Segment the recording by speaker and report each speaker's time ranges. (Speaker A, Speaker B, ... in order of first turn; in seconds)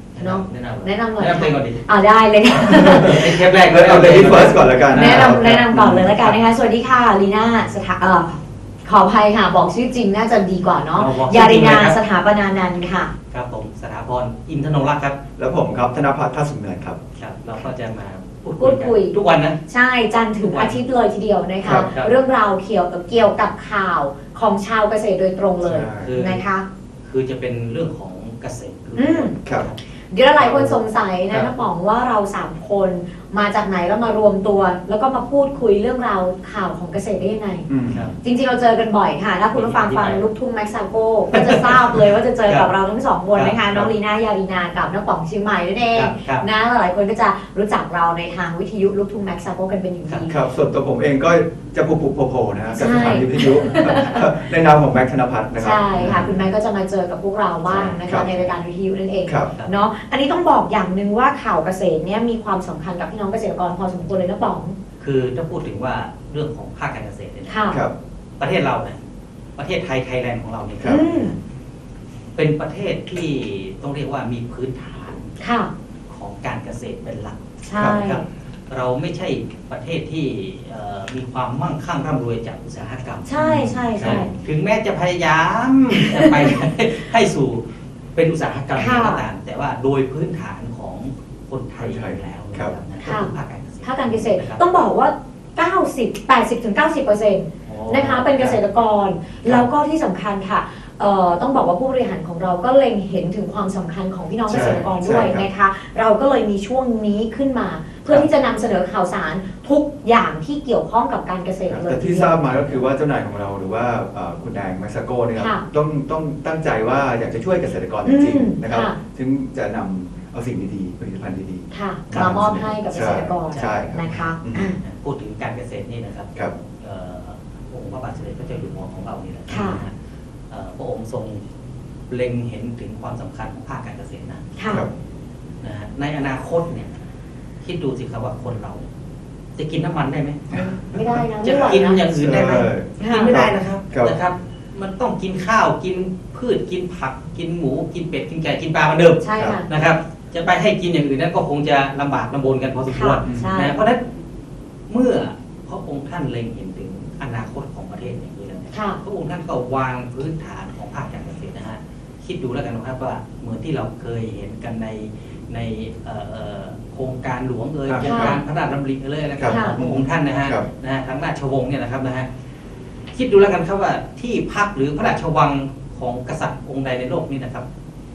Speaker A: 0.1-1.8, 2.7-5.5, 10.9-12.0, 13.3-15.2, 17.2-19.6, 20.4-20.8, 21.6-22.1, 26.0-26.4, 27.1-29.8, 30.4-30.8, 37.9-38.2, 39.5-40.2, 41.3-42.7, 43.3-43.9, 45.9-46.5, 53.4-53.9, 57.7-58.0, 65.0-67.8, 68.4-69.0, 69.6-71.3, 72.3-75.3, 76.1-83.4, 84.0-87.6, 88.1-94.6, 97.7-98.6, 104.5-104.9, 123.5-123.7, 124.8-129.9, 130.5-131.4, 132.1-134.6, 135.6-136.9, 137.6-138.8, 139.6-140.4, 141.4-154.0, 154.9-172.3, 173.1-177.6
Speaker B: 0.2-3.3, 4.9-13.1, 18.6-19.1, 19.7-26.6, 28.9-29.3, 30.1-37.6, 38.2-50.4, 52.7-54.2, 55.5-64.8, 67.5-67.8, 70.8-71.3, 75.4-75.7, 77.6-78.2, 83.2-84.3, 86.0-86.5, 88.8-89.2, 93.0-93.3, 93.8-112.4, 115.3-115.6, 118.0-119.0, 121.7-124.8, 129.5-129.8, 134.6-134.8, 140.5-142.0, 143.0-143.3, 149.2-149.7, 152.9-153.8, 158.7-159.0, 168.0-168.4, 169.5-169.8
Speaker C: 2.7-6.3, 15.4-17.0, 25.6-26.1, 37.7-38.0, 50.2-56.3, 57.7-58.4, 59.2-59.5, 77.8-78.0, 83.4-84.2, 91.8-92.7, 104.5-105.5, 111.7-124.7, 140.5-144.2, 153.2-153.5, 167.9-168.4, 169.4-170.7